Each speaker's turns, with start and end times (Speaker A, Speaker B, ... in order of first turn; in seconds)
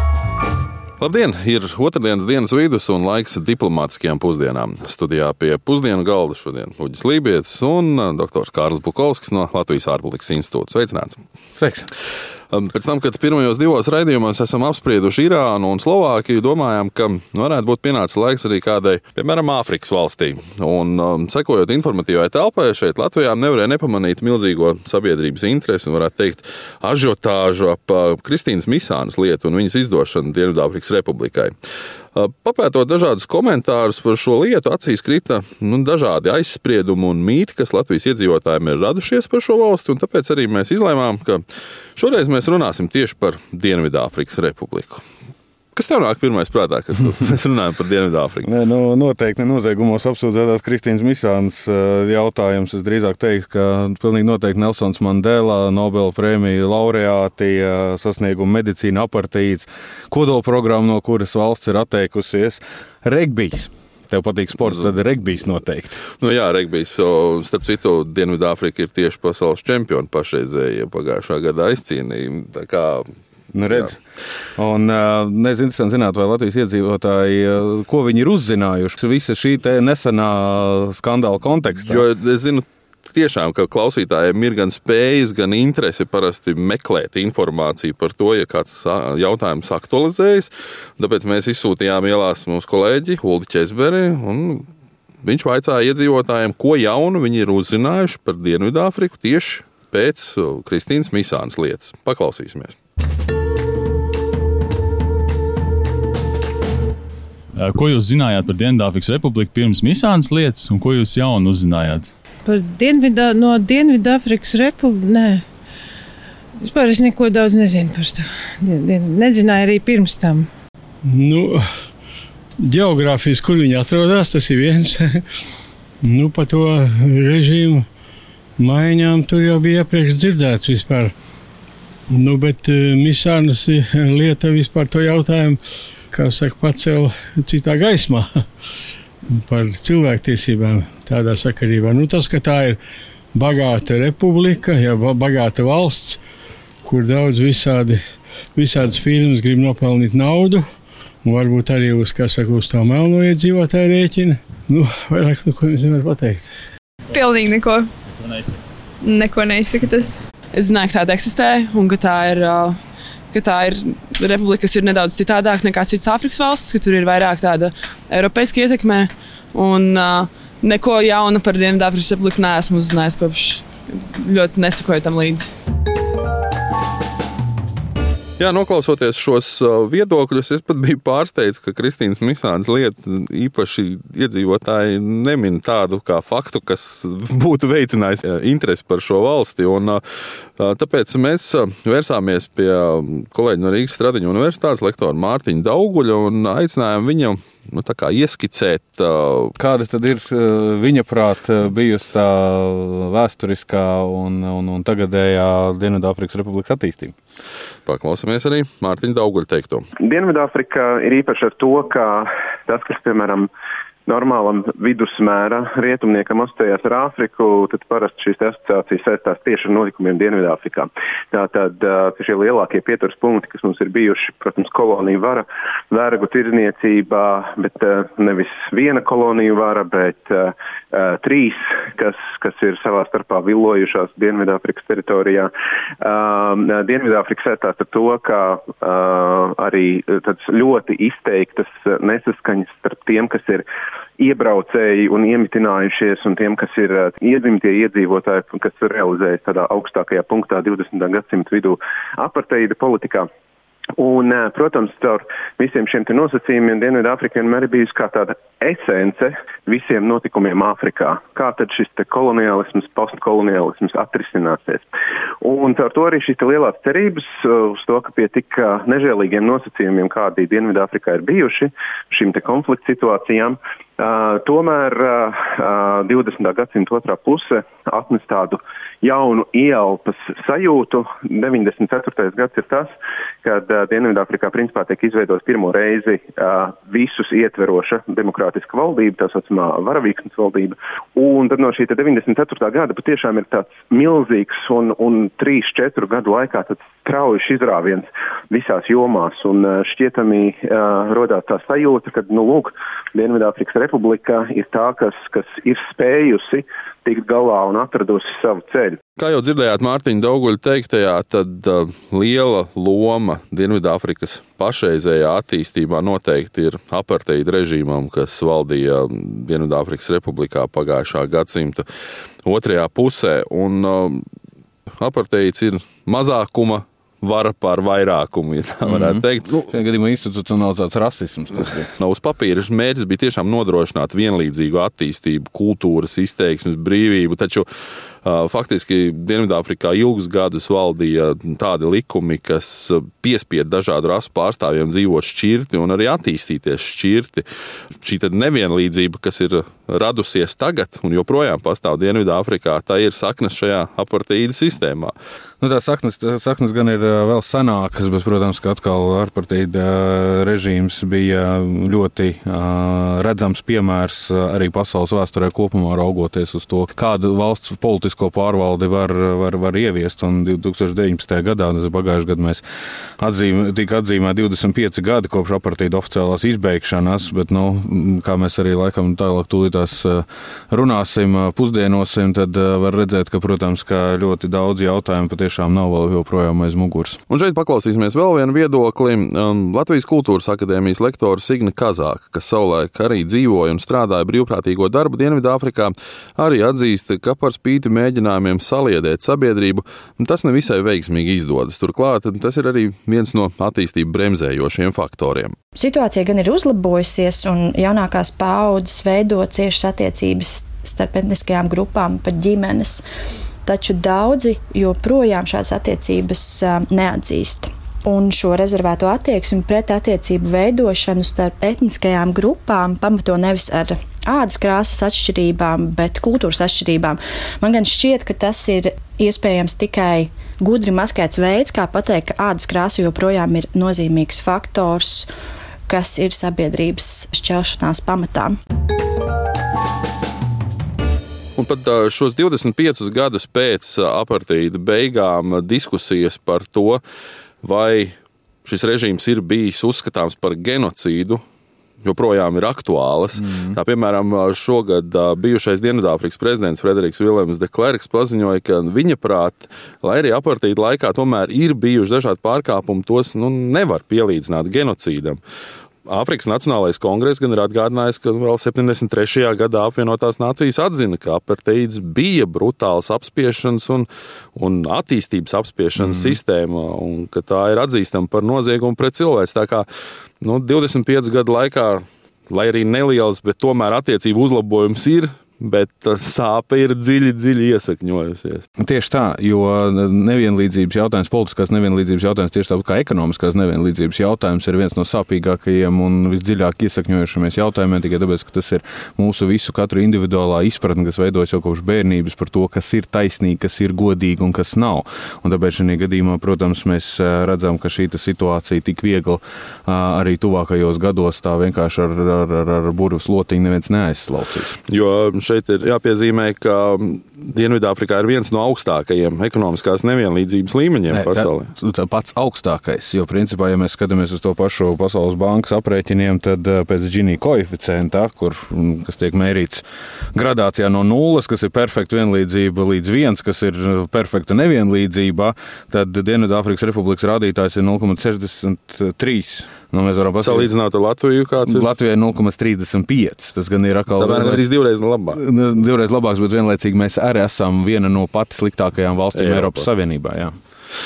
Speaker A: 1.0-11.2, 12.5-31.5, 32.1-41.4, 42.0-45.0, 45.7-48.5, 66.2-73.1, 81.8-94.7, 95.2-102.8, 178.4-190.0, 190.6-199.5, 207.8-209.8, 309.2-321.9, 322.4-324.2, 325.0-329.6, 331.9-337.6, 338.2-347.4, 347.9-355.1, 387.3-405.5, 441.6-447.0, 447.6-451.4, 452.0-465.4, 466.1-479.9, 480.4-488.6, 514.9-521.7, 540.4-541.9, 544.1-545.4, 549.3-549.9
Speaker B: 11.5-11.9, 48.4-66.0, 73.5-74.0, 74.5-82.0, 199.6-207.1, 328.8-331.9, 355.6-372.6, 373.2-387.2, 476.0-476.4, 488.8-514.8, 521.1-540.7, 541.7-544.6, 545.3-550.5
Speaker C: 107.5-112.1
Speaker D: 112.4-115.4, 116.6-120.5
Speaker E: 121.0-121.6, 122.6-125.2, 126.0-127.8, 128.6-131.1, 132.1-135.6, 136.1-138.3, 139.3-142.8, 143.3-146.2, 146.8-148.0, 148.6-150.7, 151.2-156.5
Speaker F: 157.1-157.9, 159.0-160.2
Speaker G: 160.6-162.7, 163.3-175.5
Speaker H: 210.0-213.5, 214.1-235.5, 236.0-243.6, 244.2-253.3, 254.0-264.8, 265.4-282.9, 283.4-309.0
Speaker I: 405.8-413.0, 413.6-435.3, 435.9-438.6